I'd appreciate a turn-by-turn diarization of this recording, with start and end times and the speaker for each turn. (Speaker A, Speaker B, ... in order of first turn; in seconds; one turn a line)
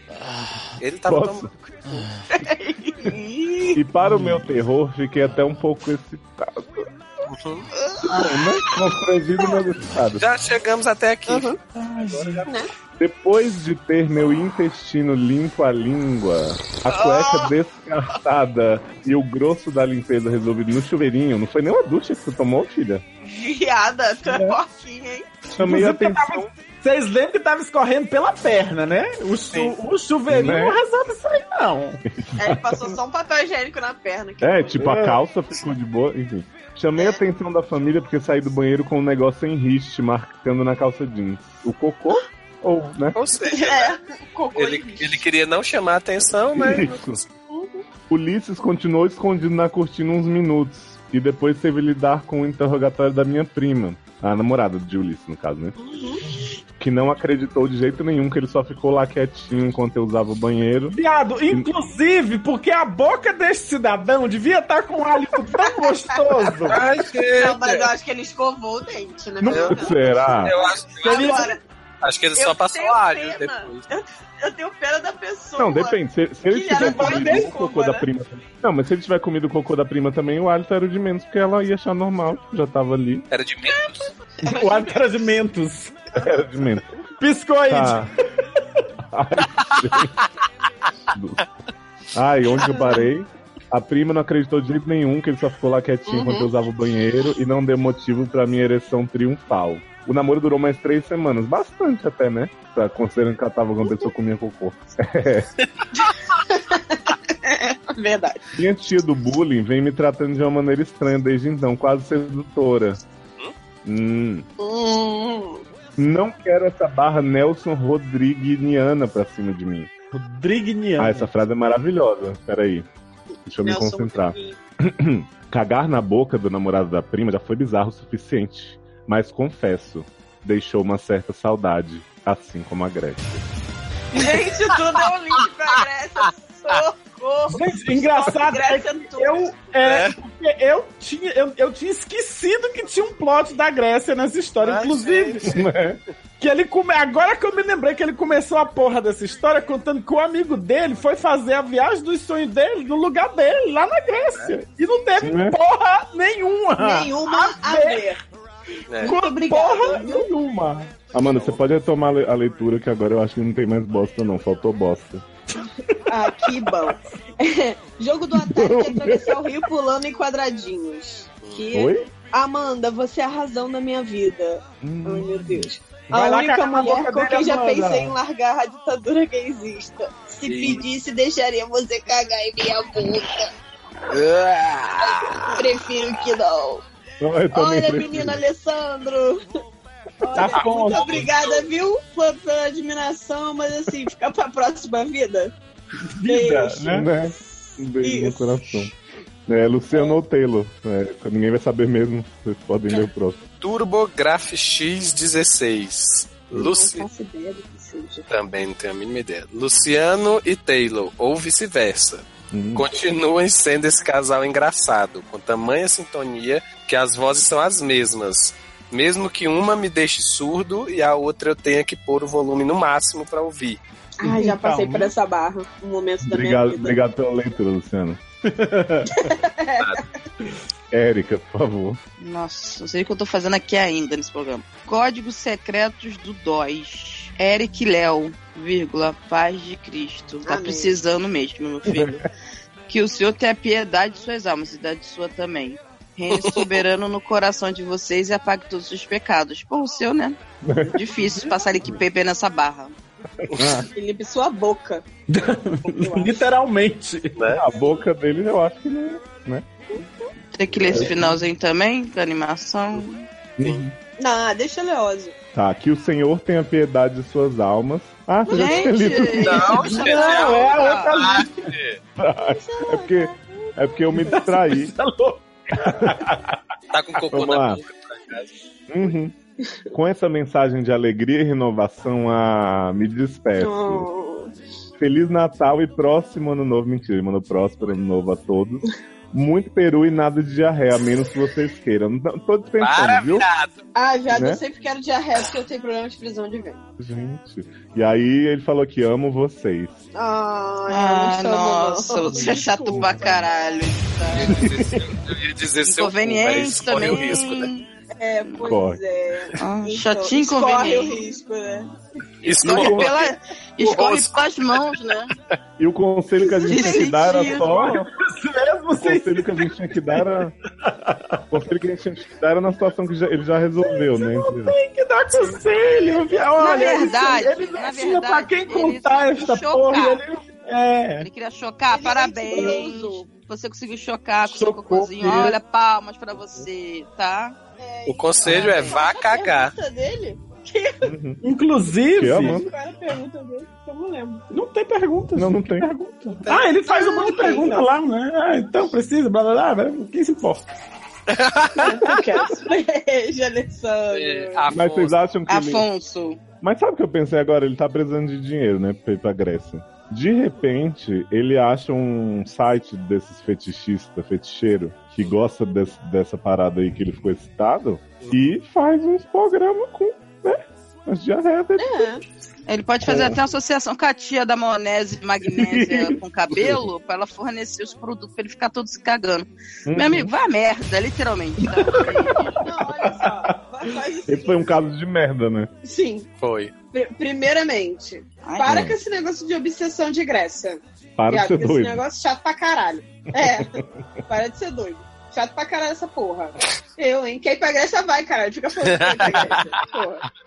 Speaker A: 0.8-2.1
Speaker B: 1.1-1.5
Speaker C: 2.3-3.8
Speaker B: 3.7-6.9
Speaker A: 7.3-7.7
Speaker C: 7.8-8.5
Speaker B: 8.0-10.2
Speaker A: 10.2-12.5
Speaker C: 11.3-11.6
Speaker D: 11.8-12.5
Speaker B: 13.0-23.0
Speaker C: 16.9-17.5
Speaker C: 23.2-25.3
Speaker D: 24.3-24.6
Speaker D: 25.6-32.0
Speaker B: 25.6-26.5
Speaker B: 30.3-30.8
Speaker B: 32.2-33.0
Speaker C: 32.4-35.0
Speaker B: 34.4-43.2
Speaker C: 37.0-37.2
Speaker A: 43.1-44.0
Speaker C: 43.5-45.2
Speaker A: 44.5-47.3
Speaker B: 46.5-47.2
Speaker C: 47.5-47.9
Speaker B: 48.1-55.8
Speaker C: 55.8-56.2
Speaker B: 56.8-61.0
Speaker D: 60.9-66.9
Speaker C: 65.6-71.6
Speaker A: 66.7-67.9
Speaker B: 69.4-70.5
Speaker A: 69.5-71.5
Speaker D: 71.0-71.5
Speaker A: 72.0-73.8
Speaker C: 72.4-78.1
Speaker B: 75.6-83.3
Speaker D: 76.7-77.5
Speaker A: 83.3-84.1
Speaker C: 83.7-85.3
Speaker D: 84.5-86.0
Speaker B: 86.2-86.8
Speaker D: 87.2-88.1
Speaker B: 87.7-88.1
Speaker B: 89.1-90.1
Speaker B: 91.1-91.4
Speaker B: 92.1-105.5
Speaker C: 92.6-93.1
Speaker C: 96.1-96.5
Speaker C: 106.0-108.4
Speaker B: 108.5-113.0
Speaker B: 113.8-114.5
Speaker C: 114.6-115.6
Speaker B: 116.0-119.9
Speaker D: 120.1-121.3
Speaker B: 121.0-122.9
Speaker B: 123.5-133.4
Speaker C: 123.5-124.6
Speaker C: 134.1-139.5
Speaker D: 137.5-145.4
Speaker A: 139.8-140.2
Speaker A: 144.6-145.6
Speaker B: 145.4-146.0
Speaker D: 146.4-158.1
Speaker B: 155.2-155.6
Speaker C: 156.8-158.2
Speaker A: 158.9-159.2
Speaker D: 159.0-160.1
Speaker C: 159.0-160.3
Speaker B: 159.9-165.2
Speaker A: 161.2-161.6
Speaker C: 166.1-183.5
Speaker B: 168.3-169.6
Speaker B: 171.7-172.1
Speaker B: 174.8-175.7
Speaker D: 176.1-178.2
Speaker A: 180.4-180.8
Speaker A: 184.1-185.5
Speaker C: 185.0-186.8
Speaker B: 187.2-188.4
Speaker C: 187.5-189.5
Speaker C: 190.2-195.5
Speaker D: 190.3-191.3
Speaker A: 190.9-191.7
Speaker D: 196.0-197.1
Speaker C: 196.2-197.3
Speaker B: 196.3-198.9
Speaker C: 198.0-198.8
Speaker B: 199.5-203.4
Speaker C: 199.9-200.2
Speaker A: 203.6-207.1
Speaker C: 206.5-208.3
Speaker A: 208.3-223.8
Speaker B: 212.5-212.9
Speaker C: 224.2-227.0
Speaker B: 224.3-225.1
Speaker D: 224.4-225.0
Speaker B: 226.2-228.2
Speaker D: 228.5-229.1
Speaker C: 229.1-230.0
Speaker B: 230.9-232.0
Speaker E: 232.2-242.2
Speaker C: 240.4-241.0
Speaker B: 241.9-242.2
Speaker E: 242.9-250.4
Speaker A: 246.3-246.8
Speaker B: 250.6-251.1
Speaker E: 250.9-252.9
Speaker B: 253.5-253.9
Speaker C: 253.9-255.1
Speaker D: 255.3-257.4
Speaker C: 255.8-256.5
Speaker A: 257.4-257.6
Speaker B: 257.5-259.6
Speaker C: 259.9-260.2
Speaker E: 260.6-263.3
Speaker B: 260.8-261.2
Speaker B: 263.6-263.9
Speaker C: 264.2-265.3
Speaker B: 265.5-269.8
Speaker C: 268.4-270.7
Speaker E: 268.5-271.1
Speaker A: 269.4-272.0
Speaker D: 269.9-271.7
Speaker B: 272.2-274.9
Speaker C: 272.4-274.5
Speaker D: 274.2-276.3
Speaker B: 275.8-276.6
Speaker A: 276.9-278.5
Speaker B: 277.3-277.8
Speaker B: 278.9-279.3
Speaker B: 279.9-284.1
Speaker C: 283.6-284.5
Speaker B: 285.0-293.5
Speaker A: 292.8-293.7
Speaker C: 293.9-296.8
Speaker B: 294.3-294.6
Speaker B: 297.0-300.0
Speaker C: 300.1-303.9
Speaker E: 300.9-304.6
Speaker A: 304.3-307.7
Speaker B: 304.4-305.1
Speaker E: 305.9-307.9
Speaker C: 308.1-311.9
Speaker B: 308.6-309.0
Speaker E: 309.6-311.2
Speaker A: 312.4-314.9
Speaker E: 312.6-315.3
Speaker B: 312.7-313.2
Speaker B: 315.8-318.1
Speaker C: 316.4-317.9
Speaker E: 316.7-317.7
Speaker D: 317.6-320.2
Speaker B: 319.0-320.6
Speaker D: 320.9-321.4
Speaker B: 321.5-324.8
Speaker D: 323.9-331.3
Speaker E: 326.6-330.2
Speaker C: 326.7-327.0
Speaker E: 331.2-337.6
Speaker C: 331.9-333.2
Speaker D: 332.5-332.8
Speaker D: 334.4-335.6
Speaker C: 337.8-341.1
Speaker A: 338.1-339.7
Speaker E: 338.5-339.0
Speaker B: 341.0-341.4
Speaker D: 341.4-342.6
Speaker B: 342.2-342.7
Speaker C: 342.4-344.5
Speaker D: 344.5-350.7
Speaker B: 345.4-345.9
Speaker C: 346.5-347.9
Speaker A: 351.3-352.1
Speaker C: 351.8-354.7
Speaker A: 354.1-355.2
Speaker B: 354.7-355.9
Speaker E: 355.5-356.4
Speaker B: 356.6-372.1
Speaker C: 371.8-372.2
Speaker E: 372.7-382.6
Speaker B: 373.0-373.4
Speaker B: 375.4-376.8
Speaker B: 379.9-380.3
Speaker C: 382.5-384.7
Speaker B: 382.9-383.3
Speaker B: 384.3-385.7
Speaker C: 385.8-386.3
Speaker A: 386.4-386.7
Speaker C: 386.9-400.2
Speaker E: 388.4-388.8
Speaker B: 388.6-389.0
Speaker B: 391.2-392.0
Speaker B: 393.4-393.8
Speaker A: 398.9-399.7